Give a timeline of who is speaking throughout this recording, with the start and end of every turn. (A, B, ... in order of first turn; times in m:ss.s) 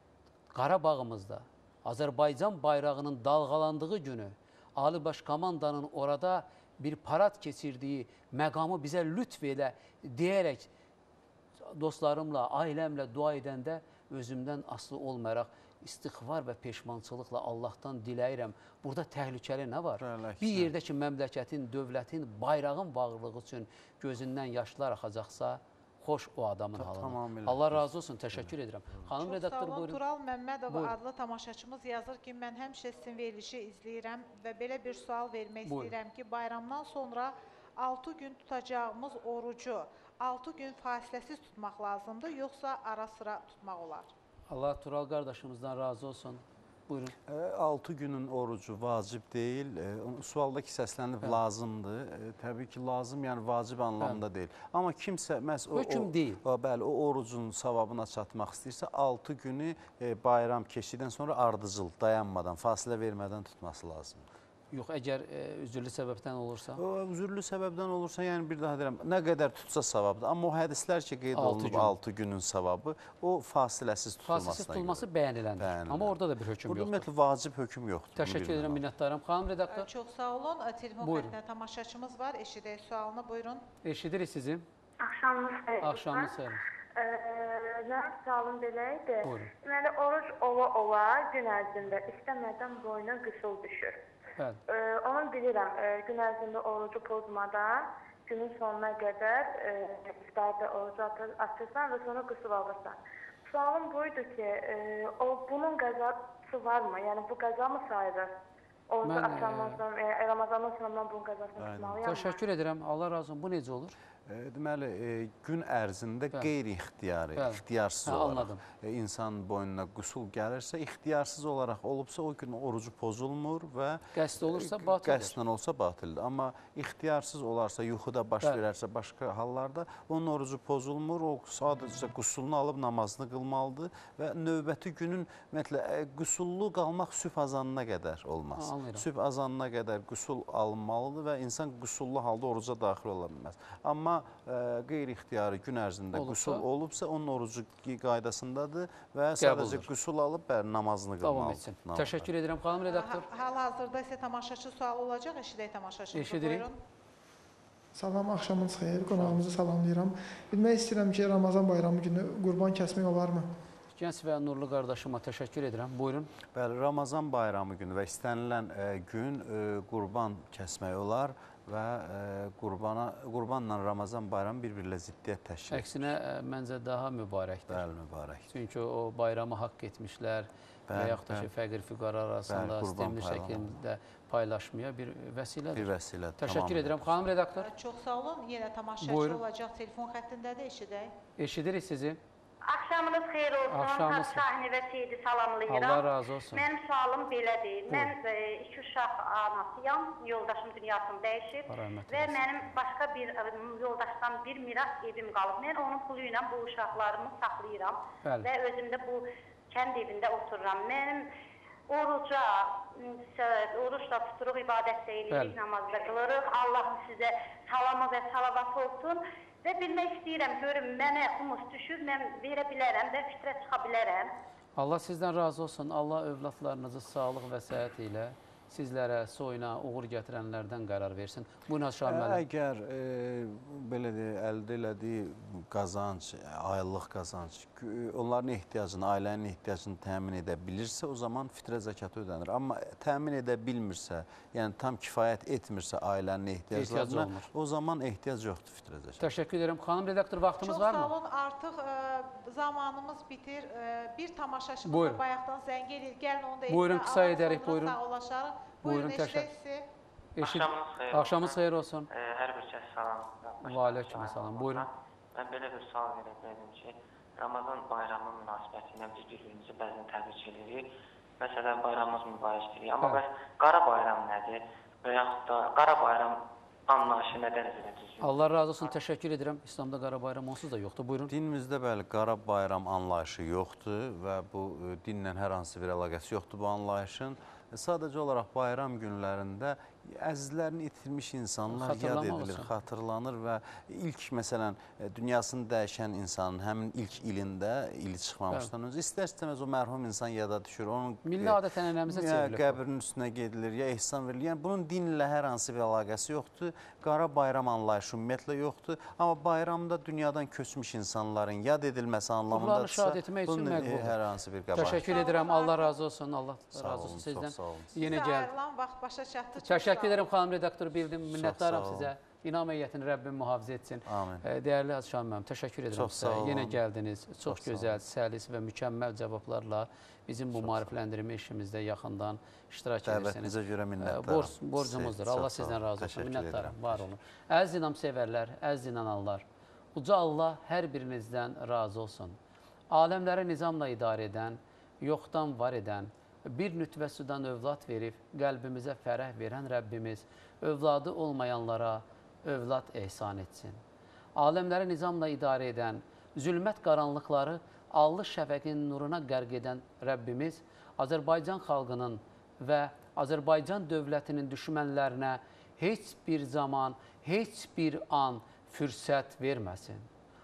0:00.5-0:10.7 A
0:11.6-0:30.0 A
0:20.0-0:20.7 B
0:26.8-0:29.0 B
0:29.1-0:44.1 C
0:30.7-0:30.9 A
0:35.6-0:35.9 A
0:44.5-0:47.1 A
0:47.2-1:04.2 B
0:55.7-0:56.4 A
1:04.7-1:06.8 A
1:06.8-1:15.0 B
1:11.3-1:12.0 A
1:14.2-1:17.0 A
1:15.6-1:18.8 B
1:18.2-1:19.9 A
1:19.7-1:23.6 C
1:21.0-1:21.3 A
1:23.8-1:24.6 A
1:25.0-1:26.4 D
1:25.8-1:26.6 A
1:27.0-1:34.0 D
1:29.2-1:29.5 A
1:34.7-1:48.3 D
1:48.9-1:52.4 D
1:49.0-1:49.8 A
1:51.6-1:52.0 B
1:52.0-1:53.9 A
1:54.2-2:32.3 B
1:57.4-1:58.6 A
2:04.1-2:05.4 A
2:18.6-2:19.0 A
2:26.1-2:26.6 A
2:29.4-2:29.9 A
2:31.2-2:33.2 A
2:32.8-2:36.8 C
2:36.1-2:36.6 A
2:37.9-2:43.4 E
2:43.9-2:46.3 A
2:46.5-2:56.1 B
2:55.7-2:57.8 A
2:57.7-2:58.5 B
2:58.5-3:07.7 A
3:00.9-3:01.5 B
3:02.5-3:03.7 B
3:05.7-3:07.2 B
3:07.6-3:11.1 C
3:09.0-3:09.4 A
3:11.4-3:12.2 A
3:12.6-3:31.3 F
3:13.7-3:14.4 A
3:15.7-3:16.6 A
3:21.7-3:22.5 A
3:31.9-3:44.3 F
3:35.3-3:35.6 A
3:44.8-3:52.4 A
3:52.0-4:09.3 B
4:06.7-4:07.5 A
4:09.2-4:11.1 A
4:10.6-4:19.8 C
4:14.8-4:15.2 A
4:16.7-4:18.0 A
4:18.8-4:19.5 A
4:20.4-4:22.1 A
4:20.4-4:30.9 G
4:23.6-4:24.9 A
4:31.4-4:39.0 G
4:38.2-4:41.3 A
4:41.3-5:15.2 B
4:51.7-4:52.7 A
5:01.2-5:02.8 A
5:12.5-5:14.2 A
5:14.7-5:18.5 A
5:14.8-5:15.9 C
5:16.7-5:17.9 B
5:18.0-5:20.2 C
5:19.6-5:42.4 A
5:21.3-5:22.1 B
5:24.0-5:24.4 B
5:25.9-5:26.8 B
5:27.4-5:28.0 B
5:30.5-5:30.9 B
5:33.0-5:37.1 B
5:42.9-5:53.8 A
5:54.4-6:10.1 A